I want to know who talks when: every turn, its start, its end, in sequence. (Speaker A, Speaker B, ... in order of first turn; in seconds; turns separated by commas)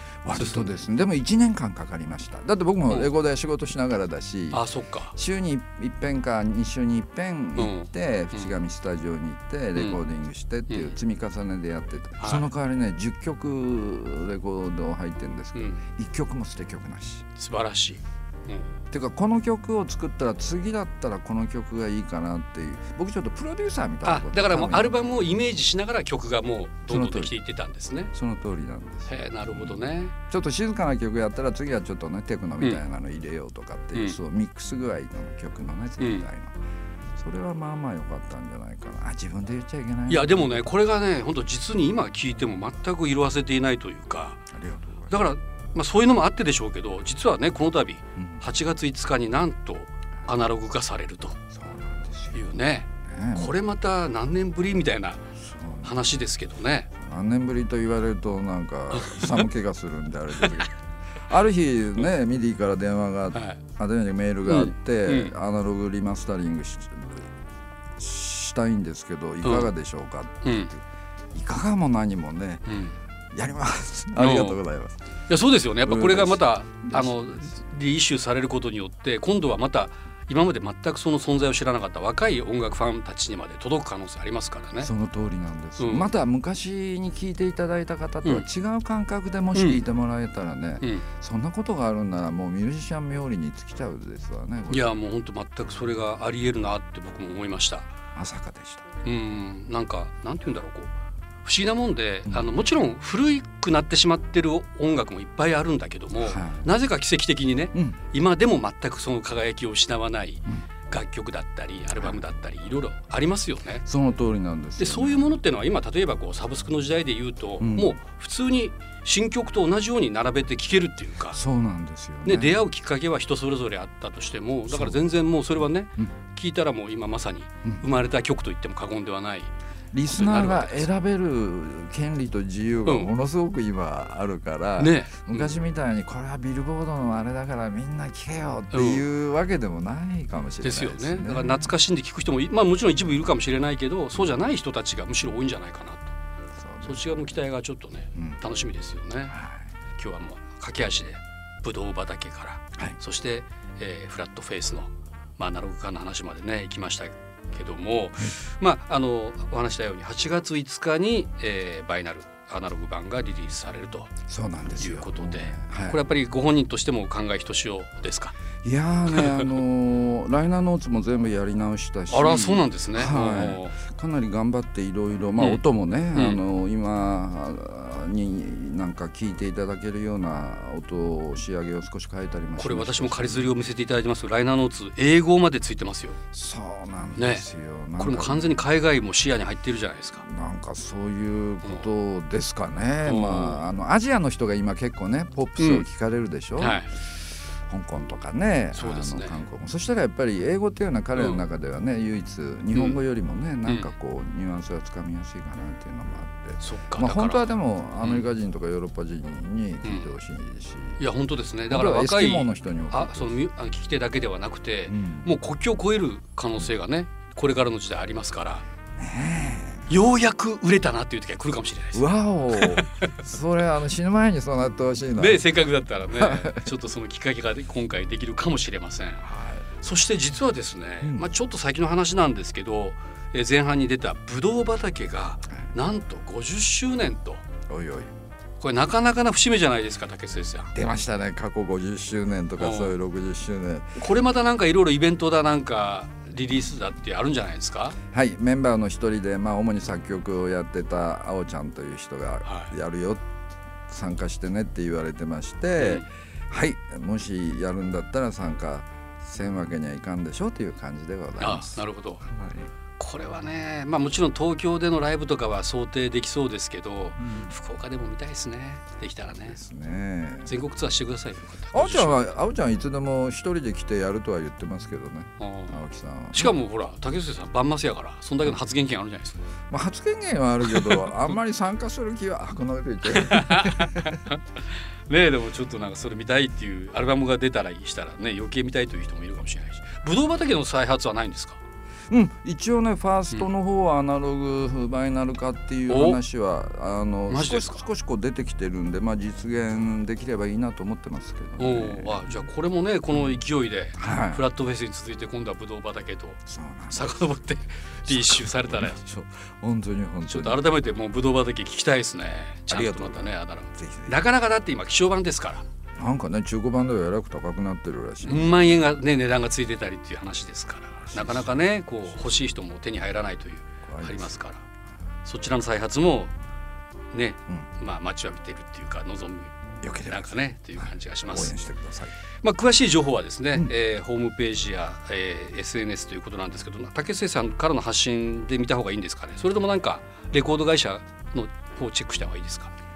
Speaker A: 0.2-17.2, Speaker B: 0.3-0.8, Speaker B: 4.5-5.1, Speaker B: 7.5-8.5, Speaker B: 9.8-10.0, Speaker B: 10.7-11.0, Speaker B: 12.2-12.5, Speaker B: 15.5-15.8, Speaker B: 17.4-18.7, Speaker A: 18.9-25.0, Speaker B: 24.0-28.1, Speaker A: 26.9-27.4, Speaker A: 28.1-36.5, Speaker B: 29.1-30.1, Speaker B: 36.0-36.3, Speaker A: 37.2-40.6, Speaker B: 40.1-44.4, Speaker A: 44.5-45.3, Speaker B: 45.1-51.4, Speaker A: 48.1-48.5, Speaker A: 51.5-53.5, Speaker B: 52.3-55.2, Speaker A: 55.4-56.2, Speaker B: 55.8-56.9, Speaker A: 56.9-60.7, Speaker B: 58.9-59.5, Speaker B: 60.4-60.6, Speaker A: 61.3-67.3, Speaker B: 63.3-63.6, Speaker B: 64.4-65.3, Speaker A: 68.0-72.6, Speaker B: 69.4-69.7, Speaker B: 70.4-70.7, Speaker B: 72.7-73.0, Speaker A: 73.3-75.0, Speaker B: 74.2-74.6, Speaker B: 75.3-84.9, Speaker A: 75.8-77.6, Speaker A: 84.8-94.9, Speaker B: 85.8-86.1, Speaker B: 89.5-89.8, Speaker B: 94.7-97.9, Speaker A: 98.1-98.8, Speaker B: 99.0-100.9, Speaker B: 101.4-113.8, Speaker A: 106.2-106.7, Speaker A: 107.7-108.0, Speaker A: 112.0-112.2, Speaker A: 113.8-115.3, Speaker B: 114.8-121.4, Speaker A: 117.6-118.0, Speaker A: 121.3-122.6, Speaker B: 122.2-129.5, Speaker A: 124.7-125.0, Speaker A: 129.9-141.7, Speaker B: 130.1-130.9, Speaker B: 132.8-133.1, Speaker B: 134.8-135.5, Speaker B: 138.7-139.0, Speaker B: 140.6-146.1, Speaker A: 146.6-147.3, Speaker B: 146.8-149.4, Speaker A: 148.1-148.4, Speaker A: 149.3-149.6, Speaker B: 149.9-164.1, Speaker A: 164.3-166.0, Speaker B: 164.8-168.3, Speaker A: 168.6-183.5, Speaker B: 169.1-169.5, Speaker B: 172.1-173.8, Speaker B: 176.1-176.4, Speaker B: 182.6-186.2, Speaker A: 186.3-188.6, Speaker B: 187.2-187.4, Speaker B: 188.0-190.2, Speaker A: 190.2-196.8, Speaker B: 193.0-193.7, Speaker B: 195.6-195.8, Speaker B: 196.6-196.9, Speaker A: 197.7-211.0, Speaker B: 198.7-199.4, Speaker B: 201.1-201.4, Speaker B: 202.7-203.0, Speaker B: 203.6-203.9, Speaker B: 206.6-207.4, Speaker B: 208.0-208.2, Speaker B: 209.8-210.1, Speaker B: 211.0-218.6, Speaker A: 211.7-213.3, Speaker A: 214.9-215.4, Speaker A: 219.0-219.9, Speaker B: 219.9-223.1, Speaker A: 221.9-225.5, Speaker B: 225.2-229.2, Speaker A: 226.1-226.7, Speaker A: 229.2-229.7, Speaker B: 229.8-237.4, Speaker A: 231.0-231.3, Speaker A: 237.7-238.1, Speaker B: 238.6-240.7, Speaker A: 240.7-243.9, Speaker B: 242.6-242.9, Speaker B: 243.9-247.9, Speaker A: 248.1-253.2, Speaker B: 252.4-252.7, Speaker A: 253.9-262.7, Speaker B: 255.8-256.0, Speaker B: 261.4-262.2, Speaker B: 263.0-269.6, Speaker A: 267.2-267.5, Speaker A: 269.4-270.5, Speaker B: 270.4-272.3, Speaker A: 271.7-276.6, Speaker B: 275.4-275.8, Speaker B: 276.3-279.4, Speaker A: 279.7-284.2, Speaker B: 280.6-281.3, Speaker B: 283.1-284.4, Speaker B: 285.1-291.6, Speaker A: 292.1-302.5, Speaker B: 295.9-296.2, Speaker B: 297.3-297.8, Speaker B: 301.6-309.0, Speaker A: 303.1-303.4, Speaker A: 303.9-304.4, Speaker A: 306.4-307.3, Speaker A: 308.0-310.7, Speaker B: 310.3-315.6, Speaker A: 312.7-314.2, Speaker A: 316.0-318.8, Speaker B: 318.2-324.6, Speaker A: 321.0-321.6, Speaker A: 323.9-324.4, Speaker B: 325.2-326.3, Speaker B: 327.1-331.5, Speaker A: 329.8-332.1, Speaker B: 332.4-342.7